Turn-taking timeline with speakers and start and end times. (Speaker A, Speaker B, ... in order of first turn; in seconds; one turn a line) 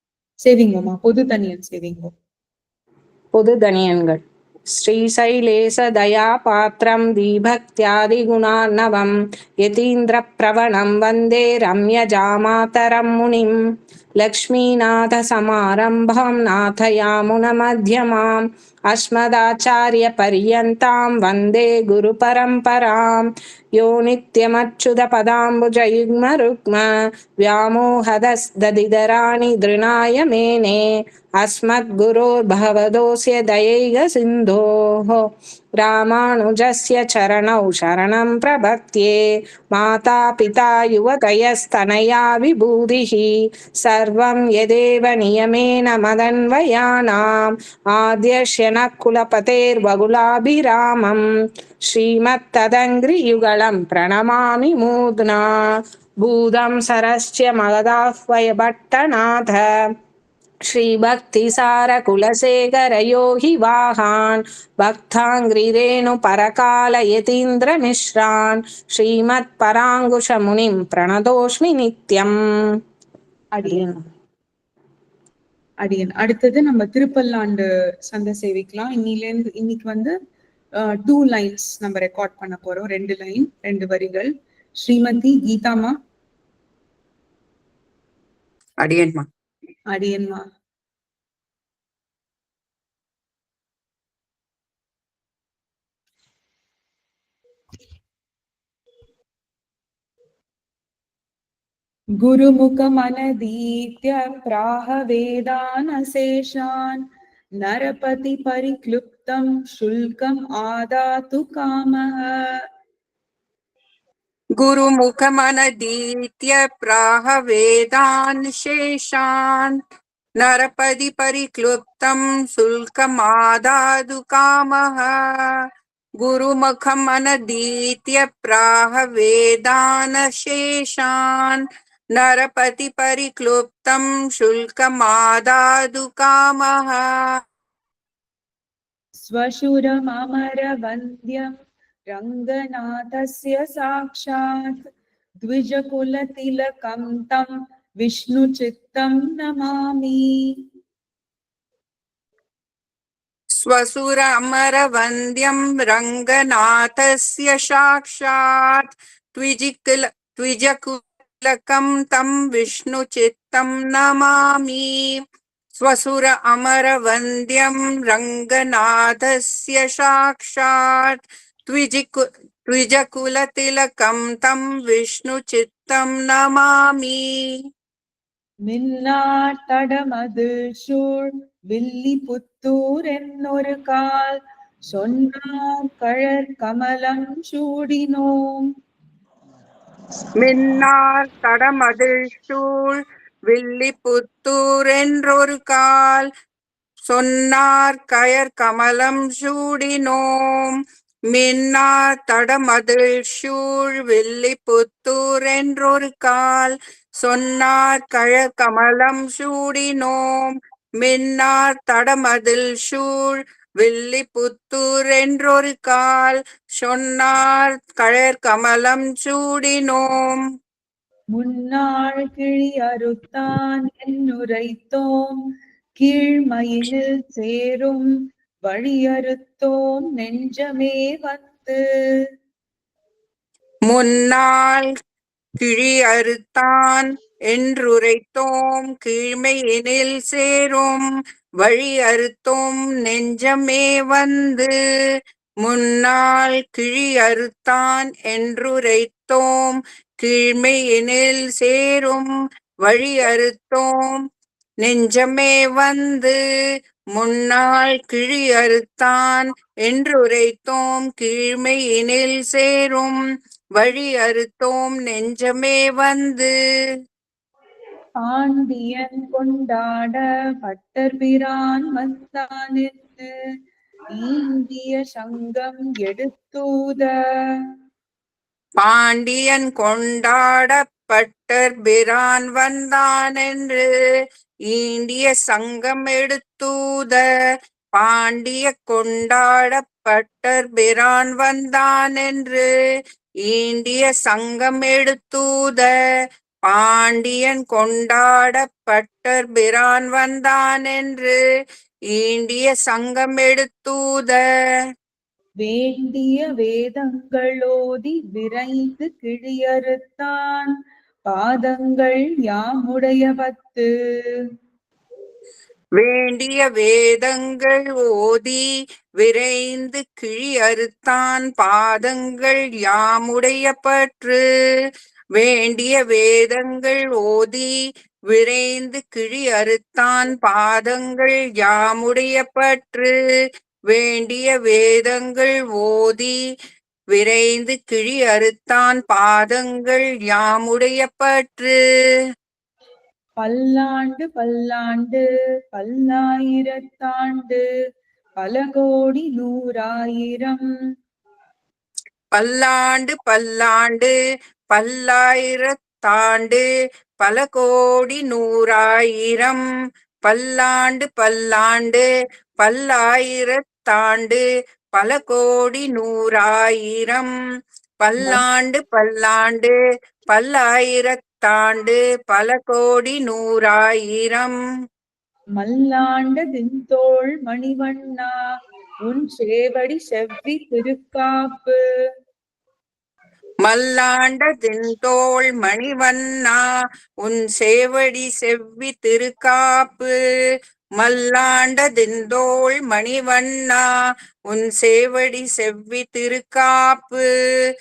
Speaker A: 0.4-2.1
Speaker B: 3.4-4.2
Speaker B: 4.8-13.5
Speaker B: 14.2-26.9
Speaker B: 27.4-30.8
Speaker B: 31.4-35.2
Speaker B: 35.8-39.2
Speaker B: 39.7-43.3
Speaker B: 43.8-51.2
Speaker B: 51.9-55.5
Speaker B: 56.2-59.6
Speaker B: 60.7-72.8
Speaker A: 73.5-73.8
Speaker B: 73.6-74.0
Speaker A: 75.8-80.1
Speaker A: 80.8-86.0
Speaker C: 88.8-89.3
Speaker A: 89.9-90.4
Speaker A: 102.2-107.0
Speaker A: 107.6-112.3
Speaker C: 114.6-119.8
Speaker C: 120.4-125.2
Speaker C: 126.2-131.6
Speaker C: 132.2-137.1
Speaker A: 139.2-141.5
Speaker A: 142.1-144.8
Speaker A: 145.4-147.5
Speaker A: 148.0-150.2
Speaker C: 153.6-165.1
Speaker C: 165.8-177.2
Speaker A: 178.7-184.4
Speaker A: 184.9-188.7
Speaker C: 190.4-196.3
Speaker C: 197.1-200.8
Speaker C: 201.3-220.4
Speaker A: 221.3-225.4
Speaker A: 226.0-228.1
Speaker A: 228.7-232.2
Speaker C: 233.9-234.9
Speaker C: 235.6-241.0
Speaker C: 241.6-244.7
Speaker C: 245.6-252.3
Speaker C: 252.8-254.2
Speaker C: 254.8-256.4
Speaker C: 257.2-263.2
Speaker C: 263.8-266.5
Speaker A: 268.2-273.3
Speaker A: 274.1-277.6
Speaker C: 278.8-283.8
Speaker C: 284.7-287.2
Speaker C: 287.9-292.7
Speaker C: 293.4-295.9
Speaker C: 296.7-301.4
Speaker C: 302.1-304.4
Speaker A: 305.6-310.7
Speaker A: 311.3-313.9
Speaker C: 316.0-318.6
Speaker C: 319.2-324.4
Speaker C: 325.4-327.7
Speaker C: 328.3-333.1
Speaker C: 333.9-336.4
Speaker C: 337.1-341.8
Speaker A: 343.4-347.6
Speaker A: 348.4-350.6
Speaker C: 352.3-354.1
Speaker C: 354.7-356.6
Speaker C: 357.2-359.6
Speaker C: 360.3-362.1
Speaker C: 362.6-364.4
Speaker C: 364.9-367.3
Speaker C: 368.0-369.8
Speaker C: 370.3-374.6
Speaker A: 375.6-378.3
Speaker A: 379.1-381.8
Speaker C: 383.6-386.6
Speaker C: 387.2-390.1
Speaker C: 391.0-393.8
Speaker C: 394.5-397.3